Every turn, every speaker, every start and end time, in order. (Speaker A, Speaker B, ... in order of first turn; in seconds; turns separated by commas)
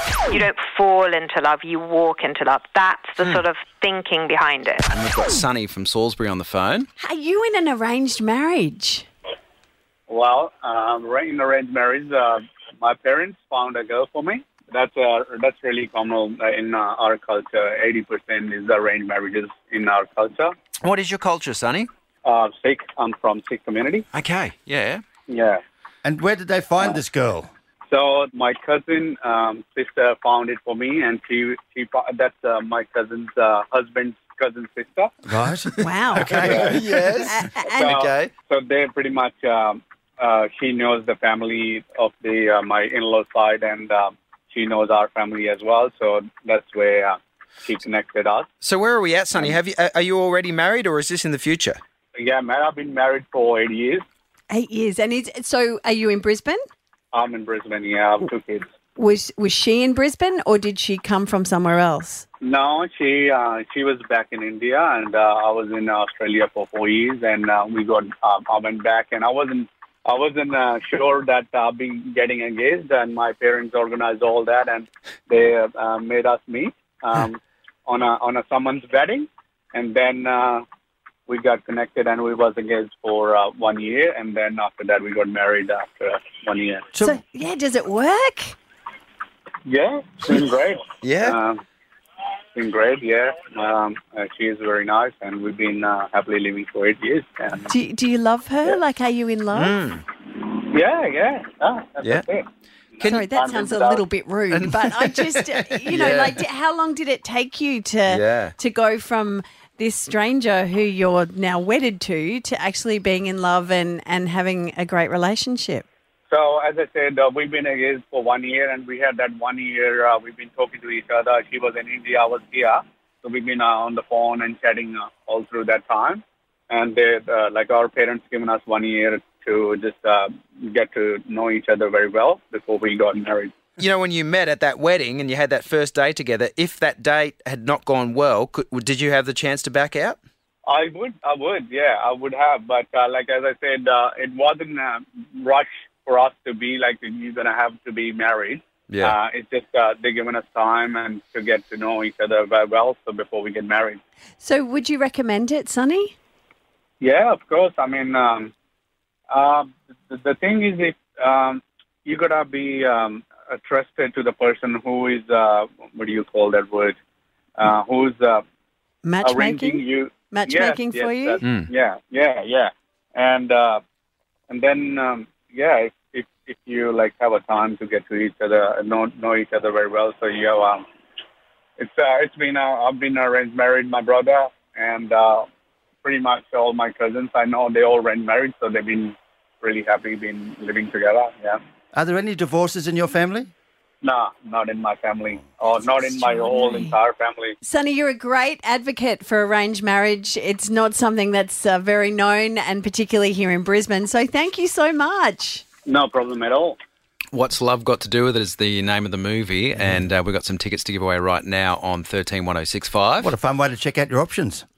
Speaker A: 0.3-4.9, Speaker B: 4.9-6.9, Speaker C: 7.0-9.1, Speaker D: 10.1-20.5, Speaker B: 20.8-21.9, Speaker D: 22.2-24.1, Speaker B: 24.1-25.0, Speaker D: 25.3-25.6, Speaker E: 26.0-27.5, Speaker D: 27.9-35.1, Speaker E: 35.3-37.0, Speaker C: 35.8-38.0, Speaker B: 36.3-38.3, Speaker D: 36.4-36.8, Speaker D: 37.8-48.5, Speaker B: 48.6-51.8, Speaker D: 52.1-54.0, Speaker C: 54.5-56.6, Speaker D: 57.1-58.7, Speaker C: 59.0-62.2, Speaker D: 62.4-80.6, Speaker D: 81.3-86.9, Speaker E: 86.9-87.2, Speaker C: 87.0-88.6, Speaker D: 89.7-91.6, Speaker B: 91.0-91.4, Speaker D: 92.5-97.7, Speaker C: 97.7-99.8, Speaker B: 99.5-100.0, Speaker D: 100.3-104.0, Speaker C: 103.0-115.9, Speaker B: 104.8-106.4, Speaker B: 108.1-108.5, Speaker D: 116.3-133.6, Speaker B: 133.8-140.2, Speaker D: 140.7-154.0, Speaker B: 148.9-149.2, Speaker C: 154.4-156.1, Speaker D: 157.0-158.5, Speaker D: 159.3-167.0, Speaker D: 167.6-168.4, Speaker C: 169.0-171.4, Speaker D: 169.2-173.8, Speaker B: 171.4-171.7, Speaker D: 174.5-180.9, Speaker D: 181.8-185.5, Speaker D: 186.0-191.6, Speaker E: 191.9-193.5, Speaker D: 194.0-197.6, Speaker C: 196.0-197.0, Speaker C: 197.6-205.6, Speaker D: 205.9-206.8, Speaker B: 207.3-213.3, Speaker E: 213.2-214.7